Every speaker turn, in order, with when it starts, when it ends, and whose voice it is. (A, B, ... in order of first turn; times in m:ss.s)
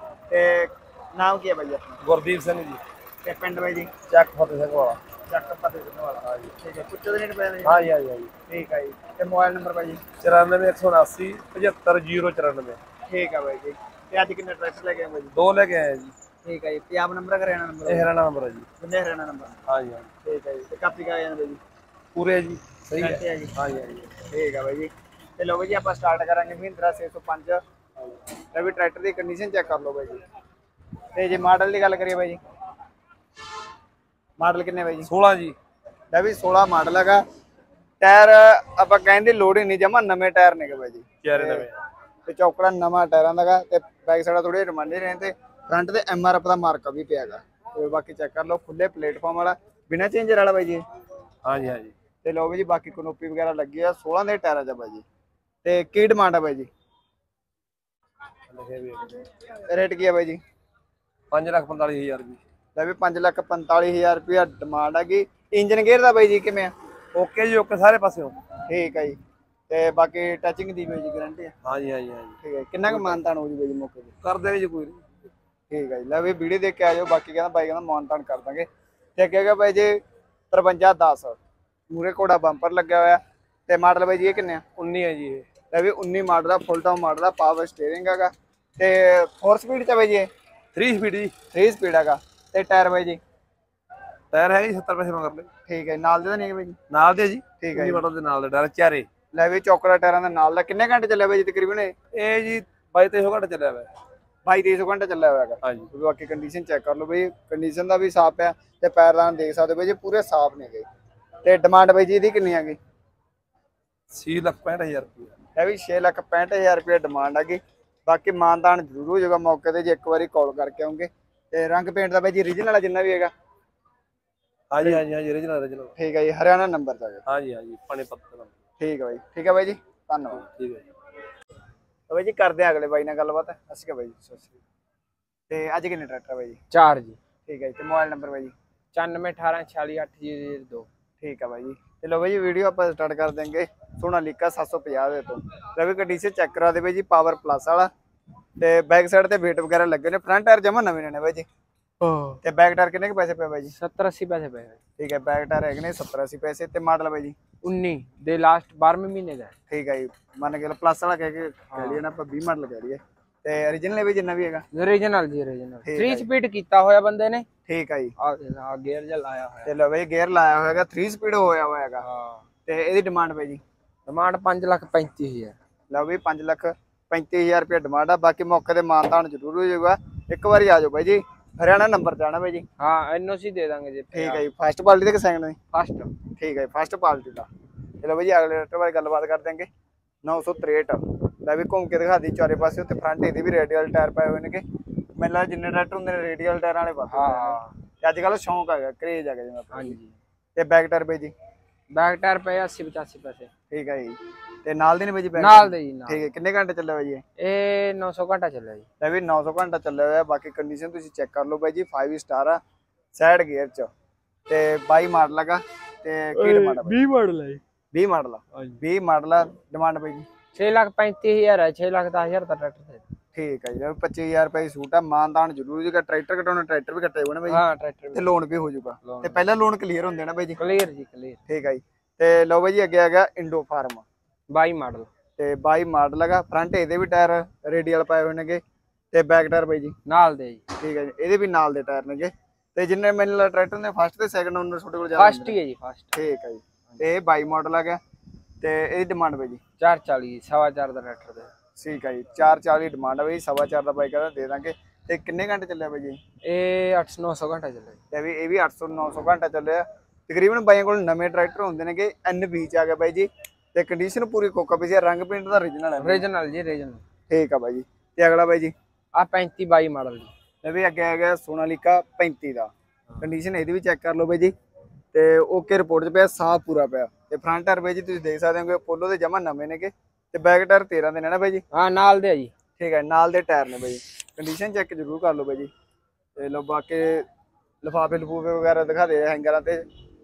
0:00.3-0:02.0 A
0:02.0-0:02.8 B
0:03.2-0:03.9 A
0:04.1-0:05.0 B
0:05.3-0:07.9 A
0:07.6-0:08.3 B
0:08.5-0:10.0 A
0:10.2-0:12.8 B
0:13.1-0:15.3 A
0:15.3-0:16.1 B
0:16.4-0:18.1 A
0:17.8-0:18.7 B
0:18.8-0:19.6 A
0:19.7-0:20.1 B
0:20.2-0:21.6 A
0:22.1-0:24.1 B
0:23.0-0:23.5 A
0:24.2-0:27.6 A
0:28.5-0:30.2 A
0:31.1-0:32.4 A
0:34.4-0:35.1 A
0:35.0-0:35.5 B
0:36.1-0:37.2 A
0:38.0-0:41.7 A
0:41.2-0:41.7 B
0:42.2-0:50.8 A
0:51.4-0:51.9 B
0:52.2-0:55.0 A
0:55.6-0:56.7 A
0:58.5-0:59.2 B
0:59.7-1:00.4 A
1:01.3-1:02.4 B
1:02.7-1:06.7 A
1:07.1-1:08.4 B
1:08.7-1:09.2 A
1:09.7-1:11.5 A
1:11.6-1:13.2 B
1:12.4-1:14.1 A
1:14.2-1:15.1 B
1:15.7-1:20.0 A
1:20.5-1:21.4 A
1:21.9-1:24.6 A
1:24.8-1:25.4 B
1:25.7-1:30.3 A
1:30.7-1:31.3 B
1:31.5-1:33.2 A
1:34.3-1:35.5 B
1:35.7-1:36.8 A
1:36.9-1:39.1 B
1:37.6-1:38.0 A
1:39.3-1:41.9 A
1:42.1-1:43.9 B
1:44.4-1:50.8 A
1:45.6-1:45.9 B
1:51.4-1:52.8 A
1:54.1-1:55.3 B
1:55.6-2:03.3 A
2:04.7-2:05.9 B
2:06.0-2:07.2 A
2:07.2-2:08.5 B
2:08.8-2:10.4 A
2:10.4-2:10.8 B
2:12.1-2:14.5 A
2:15.5-2:16.6 A
2:16.7-2:17.2 C
2:17.5-2:18.5 A
2:18.9-2:20.9 C
2:21.2-2:27.9 A
2:28.6-2:31.4 A
2:32.0-2:32.4 C
2:32.4-2:33.7 A
2:33.7-2:34.8 C
2:35.0-2:37.3 A
2:37.6-2:39.5 C
2:39.7-2:44.6 A
2:41.7-2:42.0 C
2:44.7-2:47.4 C
2:45.8-2:46.3 A
2:47.7-2:48.1 A
2:48.2-2:49.7 C
2:49.6-2:52.0 A
2:52.0-2:52.4 C
2:52.7-2:53.6 A
2:54.1-2:55.5 C
2:55.9-3:02.6 A
3:02.8-3:04.4 C
3:04.1-3:05.6 A
3:05.7-3:06.1 C
3:06.3-3:07.5 A
3:08.0-3:09.7 A
3:10.2-3:14.6 A
3:15.2-3:20.0 A
3:17.1-3:17.7 C
3:19.7-3:20.2 C
3:20.5-3:21.3 A
3:21.9-3:23.5 C
3:23.7-3:27.2 A
3:25.4-3:26.2 C
3:27.4-3:28.8 C
3:29.0-3:32.6 A
3:33.1-3:33.9 A
3:34.5-3:37.0 A
3:36.4-3:37.6 B
3:37.9-3:40.2 A
3:40.5-3:43.0 C
3:43.3-3:50.6 A
3:47.5-3:48.3 C
3:49.0-3:49.4 C
3:50.6-3:51.4 C
3:51.5-3:54.0 A
3:54.5-3:55.1 C
3:55.4-3:58.6 A
3:59.1-3:59.9 A
4:00.0-4:00.6 C
4:00.8-4:05.6 A
4:05.2-4:06.2 C
4:06.1-4:08.0 A
4:08.6-4:09.6 A
4:09.8-4:11.5 C
4:11.8-4:16.2 A
4:16.4-4:18.0 C
4:18.1-4:26.2 A
4:26.0-4:27.0 C
4:27.3-4:28.7 A
4:29.1-4:30.3 C
4:30.6-4:34.5 A
4:35.1-4:41.6 A
4:41.7-4:42.5 C
4:42.8-4:45.7 A
4:46.4-4:47.2 A
4:47.8-4:49.8 A